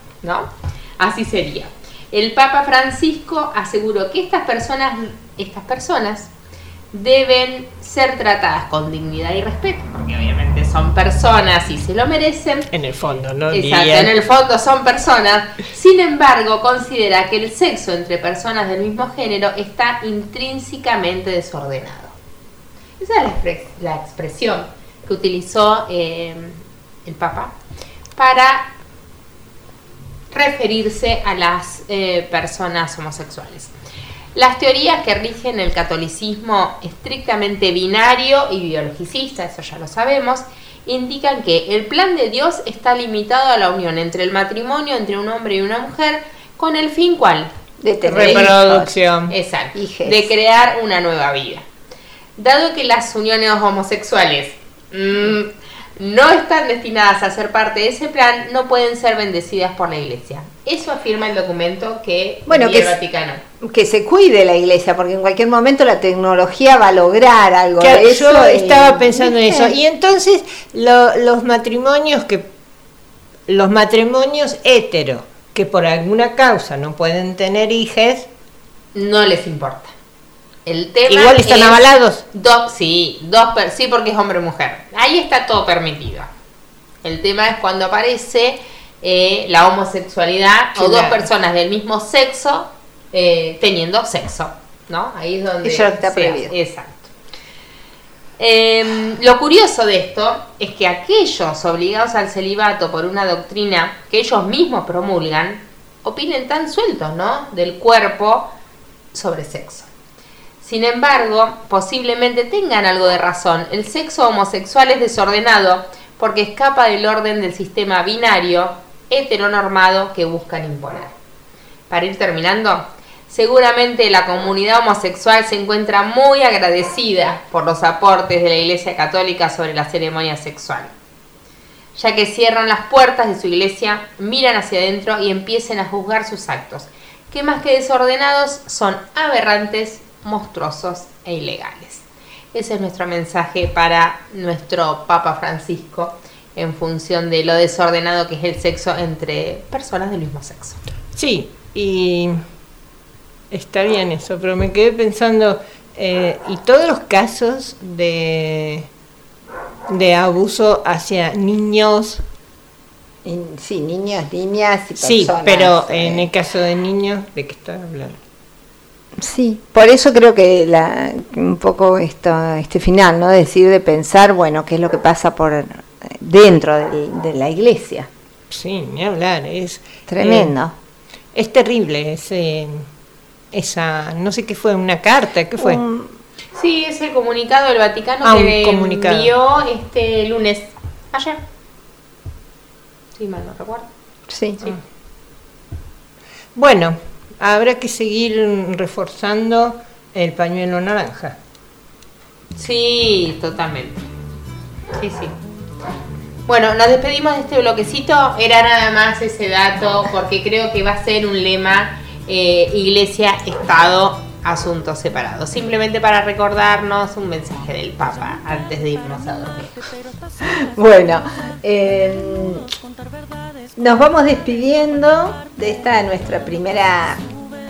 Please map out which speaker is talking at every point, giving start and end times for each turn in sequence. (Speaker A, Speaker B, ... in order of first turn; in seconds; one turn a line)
Speaker A: 0.2-6.3
Speaker A: 6.9-12.7
Speaker B: 12.7-14.2
Speaker A: 13.5-22.1
Speaker A: 23.0-27.5
Speaker A: 28.1-28.7
Speaker A: 30.3-33.7
Speaker A: 34.3-47.5
Speaker C: 47.8-48.9
Speaker B: 48.0-49.3
Speaker A: 49.3-51.7
Speaker C: 49.7-50.3
Speaker A: 52.4-63.4
Speaker C: 62.5-63.0
Speaker C: 63.6-69.8
Speaker B: 67.8-72.5
Speaker B: 73.5-78.3
Speaker A: 78.9-79.9
Speaker A: 80.7-81.8
Speaker B: 81.1-82.2
Speaker A: 82.3-86.3
Speaker A: 87.0-97.1
Speaker B: 90.8-91.3
Speaker C: 95.6-96.5
Speaker A: 98.4-108.5
Speaker A: 109.1-109.9
Speaker A: 110.6-121.1
Speaker A: 121.9-130.9
Speaker A: 131.9-150.8
Speaker B: 151.1-152.4
Speaker B: 153.5-158.9
Speaker B: 159.9-162.2
Speaker C: 163.2-166.3
Speaker B: 165.0-168.2
Speaker C: 169.2-178.1
Speaker B: 178.5-180.6
Speaker C: 180.1-180.7
Speaker B: 181.3-182.9
Speaker B: 183.5-185.8
Speaker C: 185.6-186.2
Speaker A: 186.5-191.4
Speaker B: 188.2-189.3
Speaker A: 193.1-193.9
Speaker C: 194.3-194.6
Speaker B: 196.5-201.4
Speaker A: 202.5-204.0
Speaker A: 204.9-205.3
Speaker A: 206.5-219.8
Speaker C: 220.4-222.7
Speaker C: 223.8-227.2